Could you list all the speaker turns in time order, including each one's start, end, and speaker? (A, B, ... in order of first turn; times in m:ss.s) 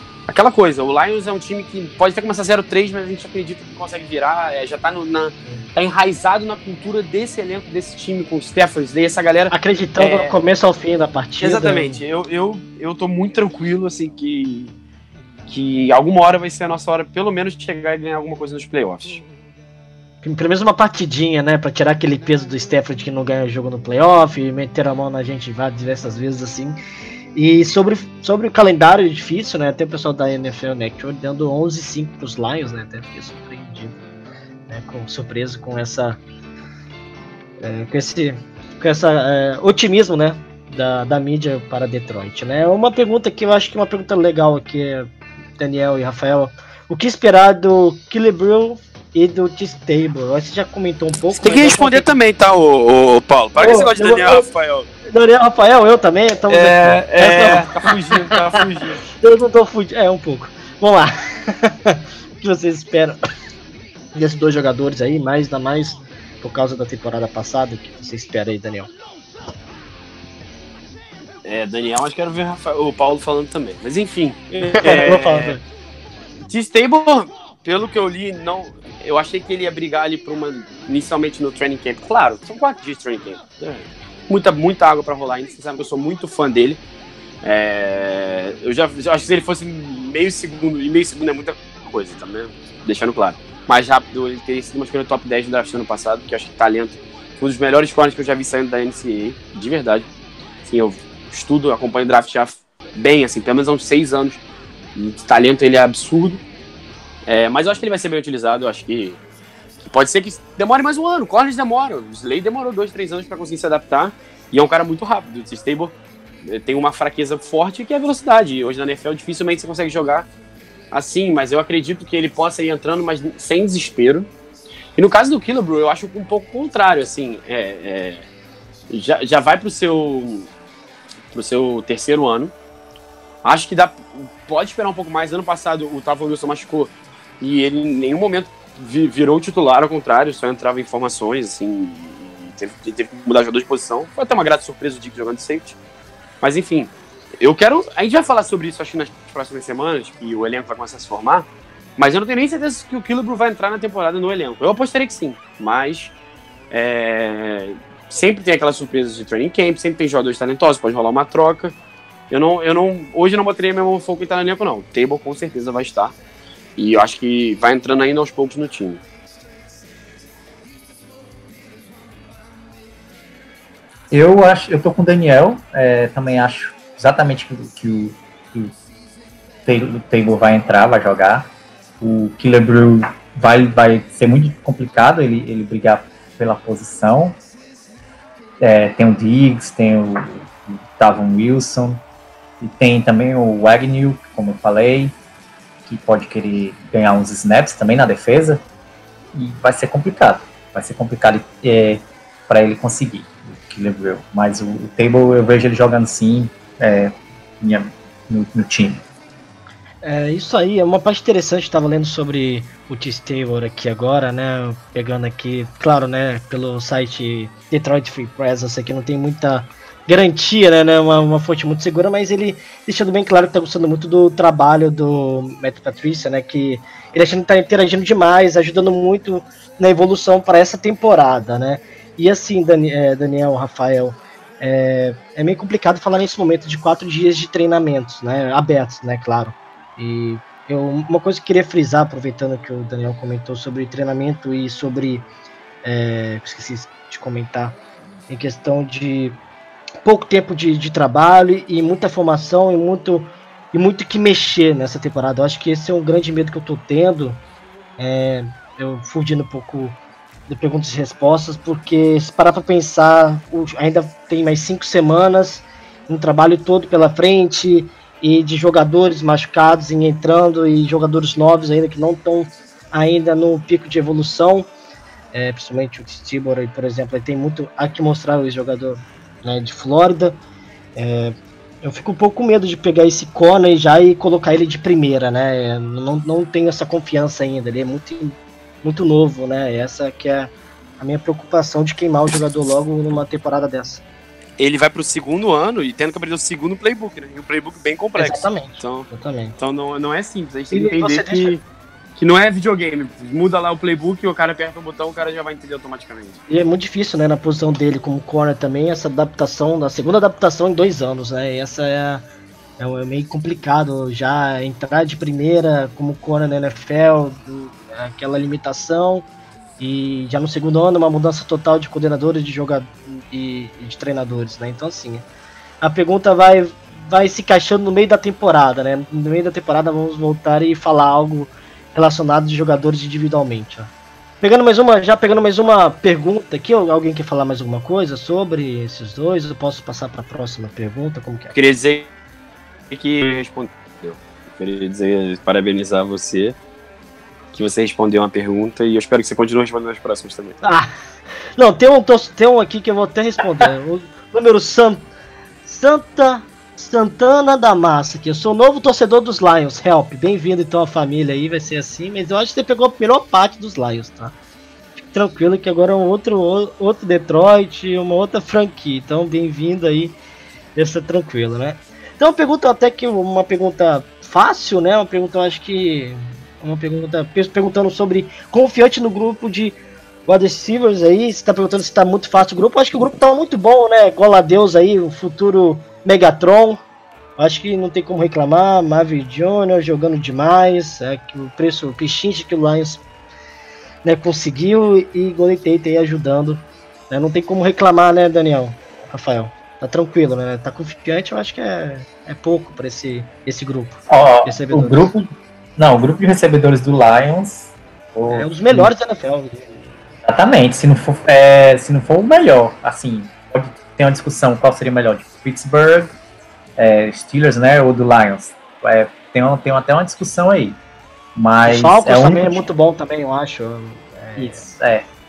0:00.3-0:10.4 A
0:09.5-0:12.0 B
0:11.4-0:14.7 A
0:15.5-0:19.2 A
0:20.2-0:26.8 B
0:27.3-0:34.0 B
0:34.7-0:36.2 B
0:37.6-0:52.1 B
0:51.3-0:54.9 A
0:53.6-0:54.4 B
0:55.0-0:58.4 B
0:56.5-0:59.0 A
0:59.0-1:03.2 B
1:04.1-1:08.9 B
1:11.4-1:15.6 A
1:14.6-1:15.6 B
1:16.5-1:26.8 A
1:27.4-1:40.1 A
1:40.6-1:44.4 A
1:44.9-1:46.4 A
1:47.2-1:49.2 A
1:49.8-2:00.3 A
2:00.9-2:04.3 A
2:05.0-2:08.2 A
2:08.9-2:10.5 A
2:11.3-2:12.5 A
2:13.4-2:25.8 A
2:26.4-2:36.1 A
2:36.7-2:41.7 A
2:42.3-2:46.1 A
2:46.8-2:49.0 A
2:54.1-2:58.7 C
2:59.6-3:01.5 C
3:02.0-3:07.4 C
3:08.6-3:12.0 C
3:12.6-3:15.1 C
3:15.8-3:18.6 C
3:19.3-3:29.0 C
3:30.0-4:05.2 B
4:05.8-4:07.8 B
4:08.3-4:09.4 B
4:10.0-4:17.4 B
4:18.0-4:34.7 B
4:35.3-4:40.4 B
4:41.0-4:54.0 B
4:54.6-5:01.6 A
4:58.2-4:59.6 B
5:00.7-5:01.6 B
5:02.2-5:06.4 A
5:06.5-5:12.2 B
5:12.8-5:19.2 B
5:19.8-5:25.2 B
5:25.8-5:33.9 B
5:34.4-5:41.5 B
5:41.5-5:42.1 A
5:42.9-5:46.6 A
5:47.5-5:50.6 A
5:50.6-5:50.9 B
5:51.6-5:55.1 B
5:55.6-6:04.3 B
6:05.0-6:10.2 B
6:10.8-6:26.8 B
6:27.4-6:33.0 B
6:34.0-6:45.1 B
6:44.1-6:48.9 C
6:48.3-6:49.8 B
6:50.2-6:56.1 C
6:56.8-7:00.8 C
7:01.4-7:02.6 C
7:01.6-7:04.7 B
7:04.4-7:05.0 C